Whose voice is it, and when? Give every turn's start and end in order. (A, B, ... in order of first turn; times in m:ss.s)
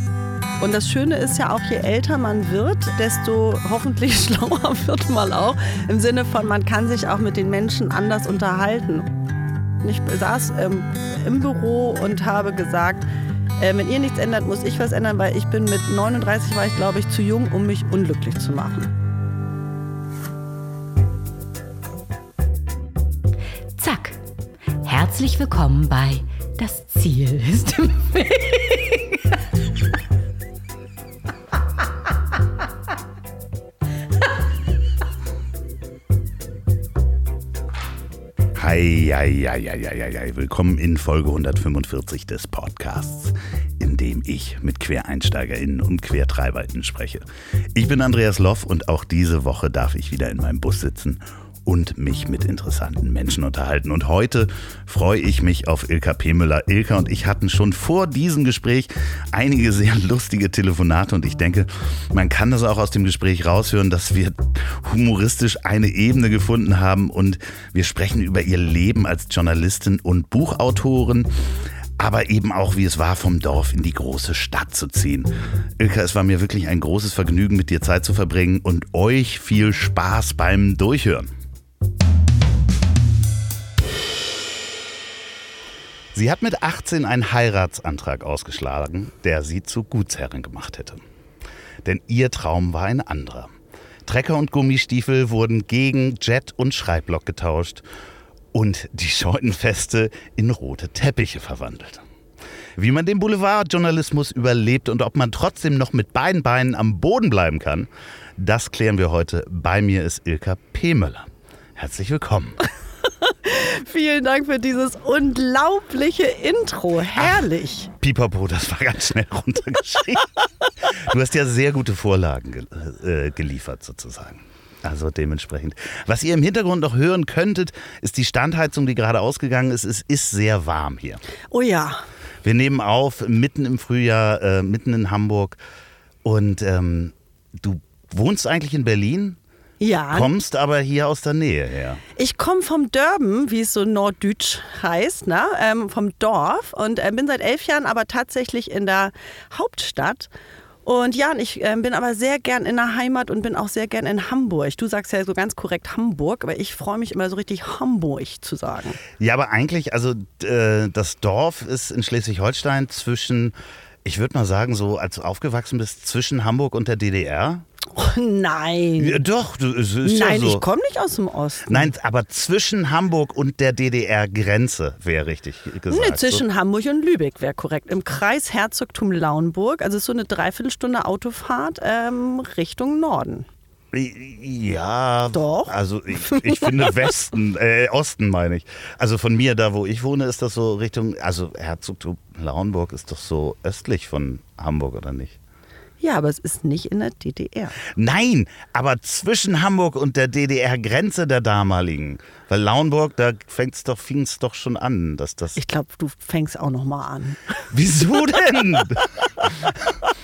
0:00.6-0:09.1 A
0:09.8-0:13.1 A
0:13.6-0:18.9 A
0:23.8-0:24.2 B
0:24.8-0:29.2 B
0:38.6-1:11.3 C
1:12.0-1:21.3 C
1:26.1-1:31.0 C
1:31.8-1:33.5 C
1:34.1-1:37.8 C
1:38.5-1:42.0 C
1:42.8-1:52.7 C
1:53.3-1:57.9 A
1:57.2-1:57.5 C
1:58.0-2:00.3 C
2:00.9-2:11.2 C
2:11.5-2:12.0 A
2:12.4-2:15.6 C
2:16.2-2:19.4 C
2:19.8-2:20.3 A
2:20.1-2:22.0 C
2:22.2-2:30.3 A
2:30.8-2:39.0 A
2:39.2-2:43.5 C
2:44.0-2:47.6 C
2:47.9-2:49.2 A
2:49.0-2:50.6 C
2:50.0-2:51.9 A
2:51.7-2:56.4 C
2:55.9-3:03.5 A
3:03.9-3:15.4 C
3:05.3-3:06.9 A
3:16.0-3:17.8 A
3:18.0-3:25.6 C
3:25.6-3:27.4 A
3:27.7-3:29.8 C